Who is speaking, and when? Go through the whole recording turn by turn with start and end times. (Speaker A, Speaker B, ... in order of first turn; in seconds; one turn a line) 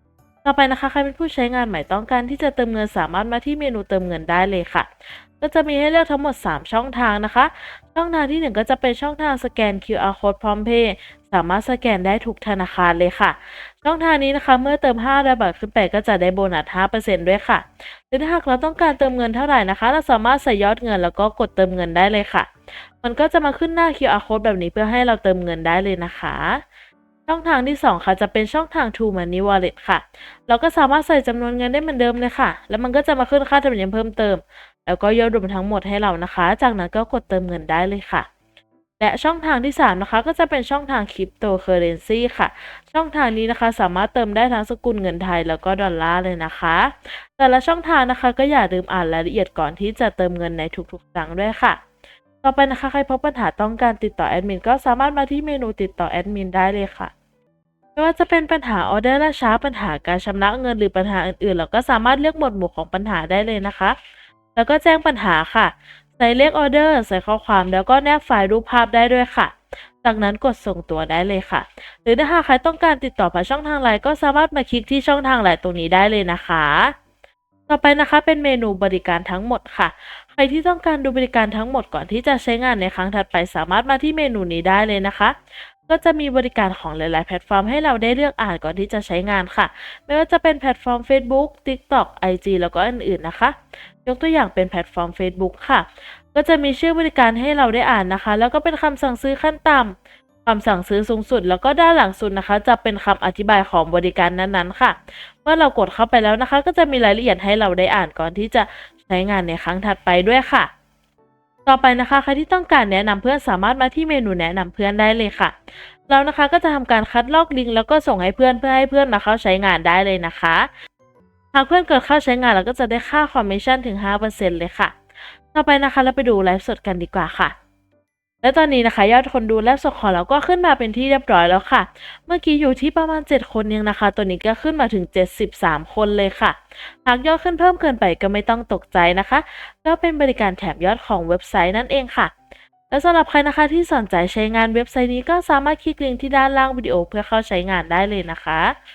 Speaker A: 0.4-22.5
Speaker A: 23.0-26.6
Speaker A: 27.3-38.3
Speaker A: 39.0-51.8
Speaker A: 52.4-57.1
Speaker A: 58.0-64.0
Speaker A: 64.5-76.9
Speaker A: 77.7-99.9
Speaker A: 100.4-110.7
Speaker A: 111.7-120.7
Speaker A: 121.5-127.5
Speaker A: 128.4-142.3
Speaker A: 142.9-148.7